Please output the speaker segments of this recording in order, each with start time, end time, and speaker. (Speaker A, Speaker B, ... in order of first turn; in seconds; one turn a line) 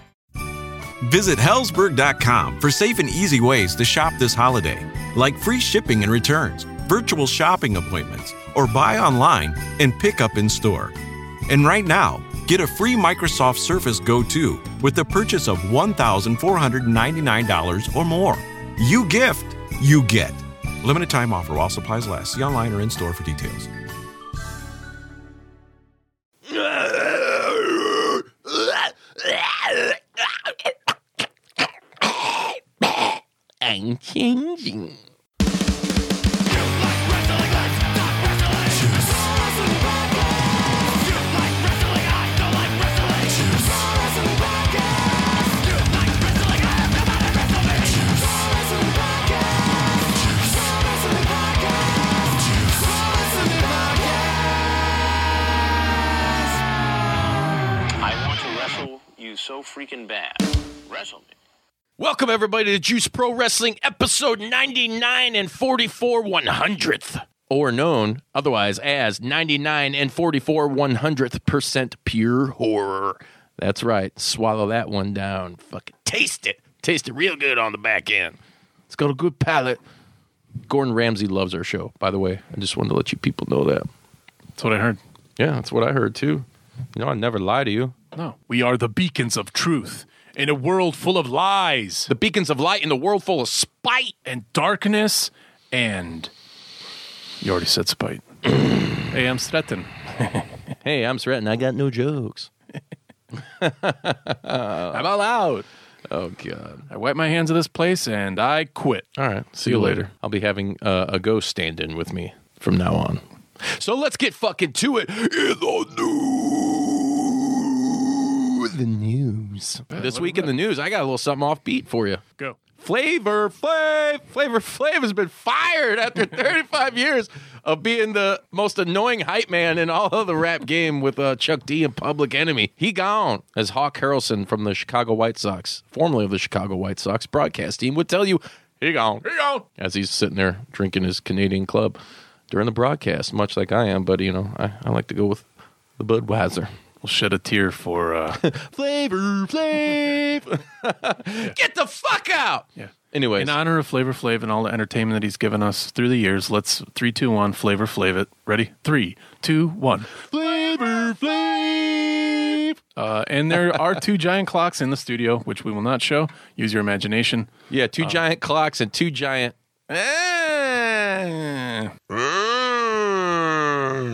Speaker A: 1.0-10.9
Speaker A: 11.5-23.7
Speaker B: 26.5-30.5
Speaker B: 32.0-35.0
Speaker C: 58.0-61.3
Speaker B: 62.0-78.4
Speaker B: 78.9-79.8
Speaker B: 80.7-83.9
Speaker D: 84.5-85.0
Speaker B: 85.4-87.9
Speaker D: 88.1-92.1
Speaker B: 92.1-94.1
Speaker D: 94.2-96.3
Speaker D: 97.4-100.5
Speaker B: 100.8-102.5
Speaker B: 103.3-105.0
Speaker D: 104.9-105.7
Speaker B: 106.1-106.9
Speaker D: 106.9-109.1
Speaker B: 109.2-122.2
Speaker D: 109.6-110.1
Speaker D: 119.9-120.5
Speaker B: 122.8-142.0
Speaker B: 142.5-145.4
Speaker B: 146.0-146.7
Speaker D: 147.0-148.4
Speaker B: 148.4-153.5
Speaker D: 152.8-162.1
Speaker B: 160.7-161.2
Speaker B: 161.9-162.2
Speaker D: 162.9-167.5
Speaker B: 167.7-169.5
Speaker D: 169.9-171.9
Speaker B: 172.6-173.0